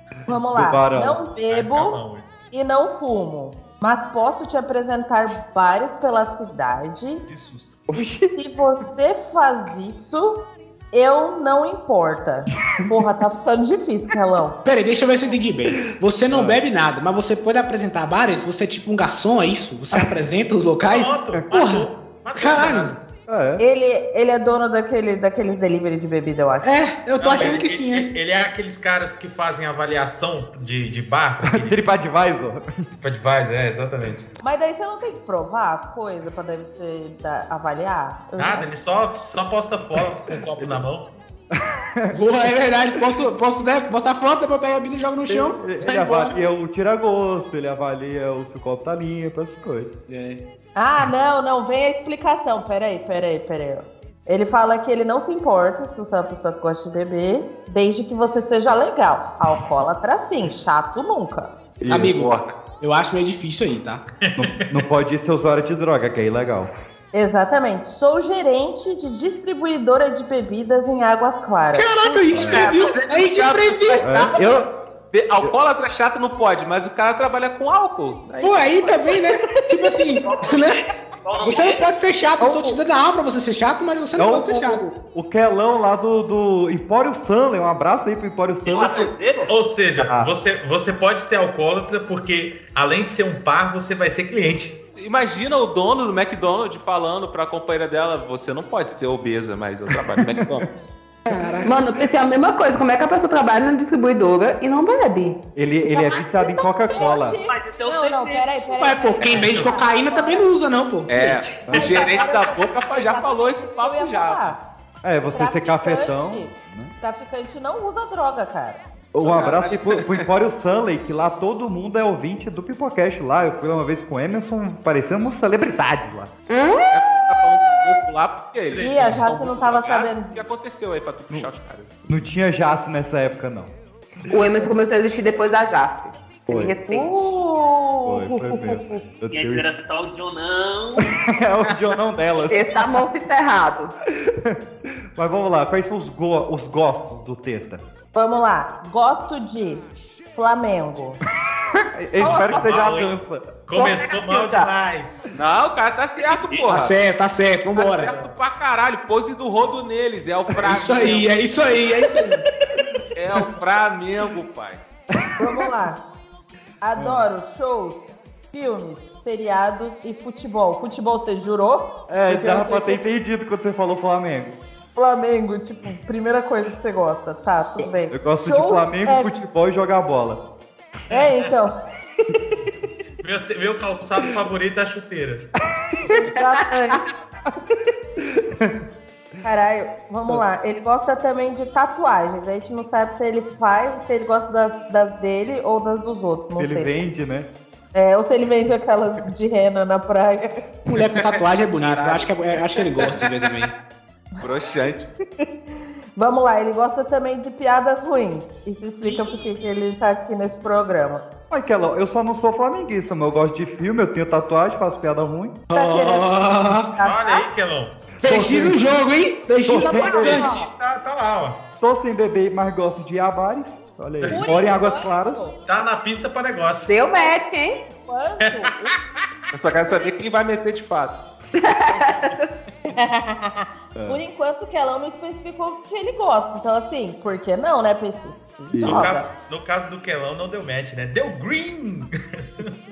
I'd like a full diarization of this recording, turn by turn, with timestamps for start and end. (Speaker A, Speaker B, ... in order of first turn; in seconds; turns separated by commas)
Speaker A: 0.3-2.0, Speaker B: 0.5-1.2, Speaker C: 1.5-2.2, Speaker A: 2.5-7.2, Speaker B: 7.9-8.3, Speaker A: 8.0-10.4, Speaker A: 10.9-14.6, Speaker D: 14.6-23.0, Speaker B: 16.3-16.6, Speaker C: 20.9-22.9, Speaker B: 23.3-23.6, Speaker A: 23.6-26.8, Speaker D: 26.6-28.1, Speaker C: 27.2-31.9, Speaker B: 31.4-32.6, Speaker C: 33.0-34.3, Speaker A: 34.4-38.6, Speaker C: 38.4-41.1, Speaker D: 42.1-45.6, Speaker B: 45.3-49.9, Speaker D: 50.1-50.4, Speaker A: 50.8-61.5, Speaker B: 61.8-62.2, Speaker D: 61.9-64.0, Speaker B: 64.4-66.7, Speaker A: 67.1-71.9, Speaker D: 71.7-74.3, Speaker B: 72.3-72.7, Speaker E: 72.4-74.0, Speaker F: 72.8-73.0, Speaker B: 74.0-74.7, Speaker F: 75.1-79.1, Speaker D: 78.4-80.8, Speaker E: 80.2-81.9, Speaker D: 81.4-84.8, Speaker B: 82.4-82.8, Speaker B: 84.2-89.1, Speaker E: 88.7-89.5, Speaker C: 89.5-94.8, Speaker B: 90.0-90.3, Speaker F: 95.0-100.7, Speaker B: 100.1-100.5, Speaker D: 101.3-101.8, Speaker G: 101.6-105.4, Speaker B: 105.5-107.4, Speaker A: 105.9-110.5, Speaker E: 107.0-108.7, Speaker D: 108.8-111.5, Speaker C: 109.4-109.7, Speaker F: 111.1-114.6, Speaker B: 111.7-112.0, Speaker A: 111.7-114.6, Speaker B: 115.0-116.9, Speaker A: 115.3-118.8, Speaker B: 119.1-126.3, Speaker F: 119.2-120.1, Speaker G: 126.5-126.9, Speaker F: 126.9-132.1, Speaker C: 128.7-129.2, Speaker A: 128.8-130.5, Speaker B: 132.1-133.7, Speaker G: 134.3-137.4, Speaker B: 136.5-136.7, Speaker A: 136.9-139.0, Speaker B: 138.0-139.8, Speaker E: 139.3-141.0, Speaker B: 141.0-142.8, Speaker G: 142.5-143.9, Speaker B: 144.2-144.6, Speaker B: 145.1-147.8, Speaker A: 148.1-151.2, Speaker B: 151.9-153.4, Speaker C: 152.2-153.1, Speaker C: 153.7-155.3, Speaker E: 153.8-154.7, Speaker F: 155.3-156.9, Speaker E: 156.2-156.7, Speaker D: 156.7-158.2, Speaker F: 157.7-161.3, Speaker D: 160.6-162.4, Speaker F: 163.2-164.8, Speaker A: 165.4-166.0, Speaker B: 165.4-165.7, Speaker A: 166.8-173.0, Speaker B: 166.9-167.2, Speaker B: 172.1-174.6, Speaker A: 174.9-179.3, Speaker B: 178.1-180.4, Speaker A: 181.1-181.7, Speaker C: 183.2-185.4, Speaker A: 186.1-187.0, Speaker B: 188.2-188.7, Speaker A: 189.4-196.9, Speaker B: 196.6-197.5, Speaker A: 197.9-200.5, Speaker D: 200.8-203.7, Speaker F: 201.2-203.7, Speaker F: 204.4-205.1, Speaker A: 206.2-211.2, Speaker F: 209.0-209.3, Speaker B: 211.5-215.6, Speaker D: 215.7-216.9, Speaker A: 215.7-217.4, Speaker C: 217.0-218.0, Speaker D: 218.2-220.6, Speaker B: 218.2-218.9, Speaker B: 219.6-220.5, Speaker A: 219.8-220.6, Speaker C: 220.0-221.6, Speaker B: 221.8-225.4, Speaker A: 224.3-225.6, Speaker C: 225.7-227.0, Speaker G: 226.9-227.8, Speaker A: 228.1-228.9, Speaker F: 229.5-231.2, Speaker G: 231.6-232.5, Speaker A: 232.9-239.2, Speaker B: 233.9-234.2, Speaker B: 238.7-239.1, Speaker C: 238.8-242.1